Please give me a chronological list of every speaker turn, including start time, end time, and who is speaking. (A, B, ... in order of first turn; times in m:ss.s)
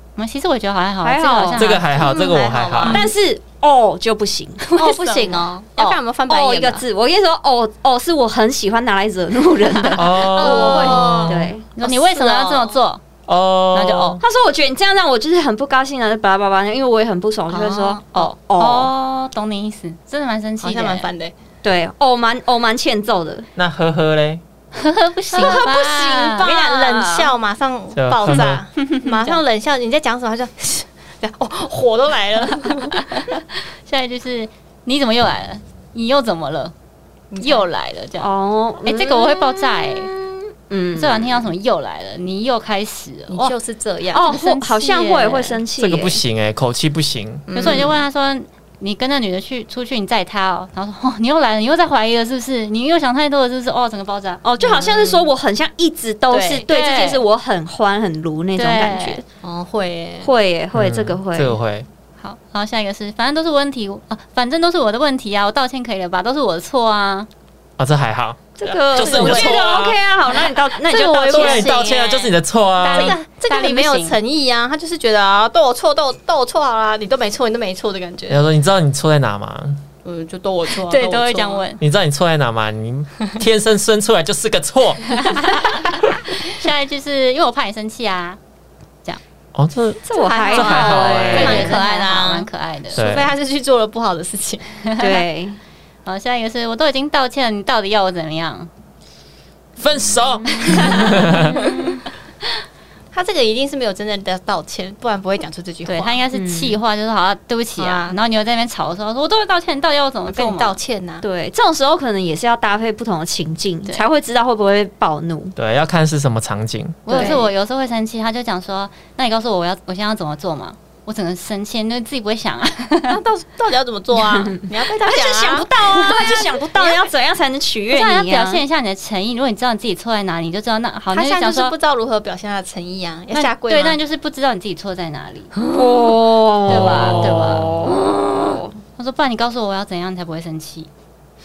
0:00.2-0:01.9 A
0:01.0-0:01.8 B
0:01.5-0:03.0 C
0:02.0-0:03.1 D
0:02.8-0:11.7 B
0:04.7-0:05.4 A
0:04.8-0:06.8 D
0:09.7-0:13.0 A
0:09.9-0:11.5 C
0:10.4-0:12.8 D
0:13.3-0:14.2 C
0:13.7-0:14.2 A
0:14.2-0:18.9 B
0:17.5-0:18.0 D
0:18.1-0:21.1 A
0:20.6-0:21.4 D
0:21.6-0:23.5 B
0:23.6-0:24.4 C
0:24.8-0:26.5 A
0:25.4-0:27.3 B
0:25.4-0:25.8 D
0:26.4-0:33.1 D
0:28.0-0:28.6 C
0:28.8-0:29.4 A
0:33.1-0:36.7 A
0:37.3-0:37.7 D
0:37.4-0:38.3 A
0:38.2-0:41.5 B
0:38.8-0:40.1 A
0:41.0-0:43.6 A
0:43.3-0:44.3 D
0:44.1-0:46.2 B
0:44.2-0:45.6 A
0:45.8-0:47.5 C
0:47.5-0:48.0 D
0:47.6-0:54.9 A
0:54.4-0:59.2 B
0:54.6-0:54.9 D
0:56.3-0:57.2 A
0:58.6-0:59.2 A
0:59.4-1:00.3 D
1:00.2-1:01.6 B
1:00.7-1:01.9 C
1:02.2-1:07.3 A
1:07.8-1:10.0 C
1:08.6-1:11.7 B
1:09.0-1:09.6 D
1:10.9-1:18.4 D
1:11.3-1:13.2 C
1:12.8-1:14.2 A
1:18.3-1:19.8 C
1:20.0-1:21.6 D
1:20.8-1:21.8 A
1:21.8-1:25.4 C
1:25.2-1:28.4 A
1:29.6-1:31.7 C
1:30.1-1:31.8 B
1:30.1-1:34.6 D
1:31.3-1:33.1 A
1:32.9-1:33.3 C
1:34.9-1:35.2 A
1:35.0-1:35.6 B
1:36.1-1:38.7 A
1:39.8-1:41.5 C
1:43.1-1:46.2 D
1:45.8-1:50.8 A
1:46.3-1:46.8 B
1:47.8-1:48.2 D
1:50.3-1:51.2 D
1:51.2-1:55.6 B
1:55.6-1:57.2 C
1:57.1-2:03.2 A
1:57.1-1:57.4 D
2:03.1-2:07.1 D
2:04.1-2:08.6 B
2:07.9-2:11.8 A
2:11.1-2:14.0 D
2:13.3-2:15.5 A
2:15.6-2:16.2 D
2:15.7-2:18.8 B
2:16.7-2:17.9 C
2:16.7-2:17.7 A
2:19.0-2:20.9 A